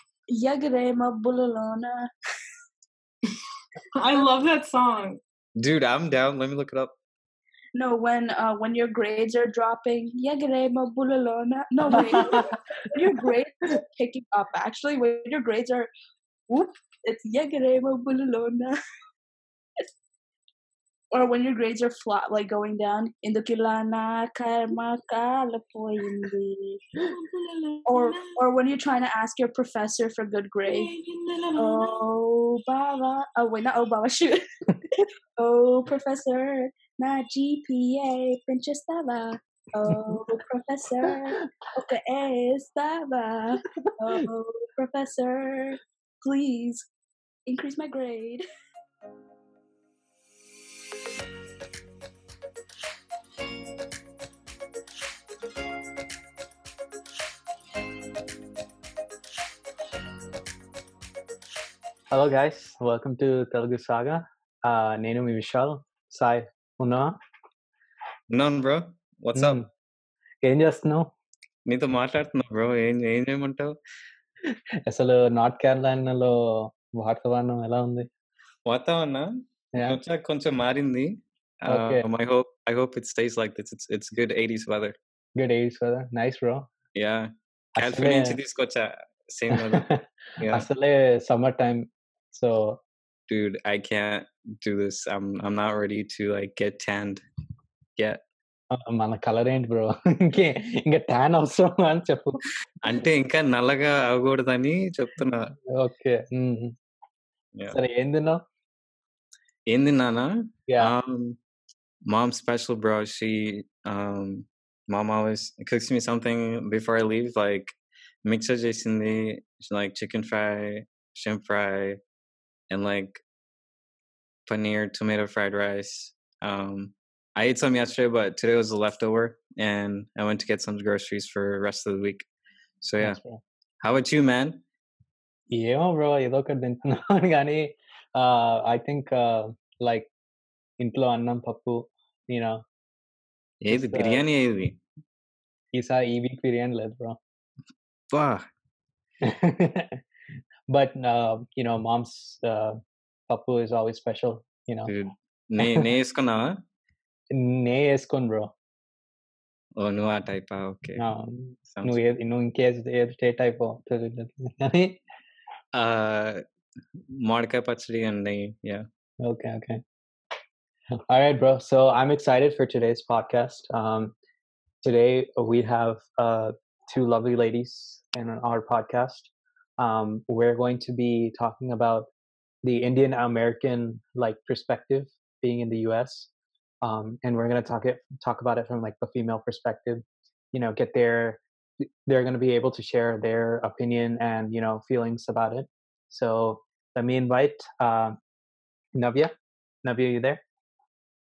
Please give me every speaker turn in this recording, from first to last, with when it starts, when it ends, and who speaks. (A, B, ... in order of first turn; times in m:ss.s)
0:00.3-0:02.1 A
0:04.0-0:05.2 B
0:05.6-0:06.9 C
0:07.8-0:15.9 A
0:11.9-0:12.6 D
0:16.5-0:18.8 A
0:21.1-0:26.8 A
0:27.0-0:28.4 B
0:27.9-0:30.9 A
0:30.7-0:32.0 B
0:31.6-0:46.9 A
0:39.9-0:40.3 D
0:41.1-0:41.5 D
0:47.5-0:48.4 A
1:02.1-1:07.2 D
1:08.3-1:09.7 C
1:09.4-1:09.7 D
1:10.4-1:11.1 D
1:11.7-1:13.8 C
1:14.5-1:18.1 D
1:18.6-1:25.0 C
1:19.7-1:20.0 D
1:21.7-1:22.1 D
1:25.4-1:26.7 D
1:27.0-1:29.9 C
1:27.8-1:28.4 D
1:29.5-1:32.8 D
1:30.4-1:30.7 C
1:33.3-1:37.2 C
1:38.0-1:38.2 C
1:38.7-1:43.1 D
1:42.8-1:45.6 C
1:45.7-1:46.8 D
1:47.7-1:48.4 D
1:49.7-1:51.4 C
1:50.7-1:50.9 D
1:52.1-2:02.0 C
2:02.7-2:03.2 C
2:04.5-2:12.3 C
2:12.8-2:13.2 C
2:13.0-2:13.4 D
2:13.8-2:14.6 C
2:15.5-2:20.1 D
2:20.8-2:22.6 D
2:23.6-2:24.8 C
2:23.7-2:24.2 D
2:25.7-2:27.2 D
2:28.1-2:28.5 C
2:29.2-2:30.0 D
2:30.7-2:32.8 D
2:33.3-2:34.9 D
2:34.9-2:36.6 C
2:35.6-2:35.9 D
2:37.3-2:38.5 D
2:39.8-2:41.1 C
2:41.0-2:45.0 D
2:41.7-2:42.0 C
2:45.7-2:46.4 C
2:47.1-2:48.8 C
2:49.2-2:49.8 D
2:51.1-2:54.1 D
2:54.8-3:02.1 D
3:02.6-3:06.3 D
3:06.8-3:11.4 D
3:12.1-3:18.2 D
3:19.0-3:19.3 D
3:19.8-3:20.4 D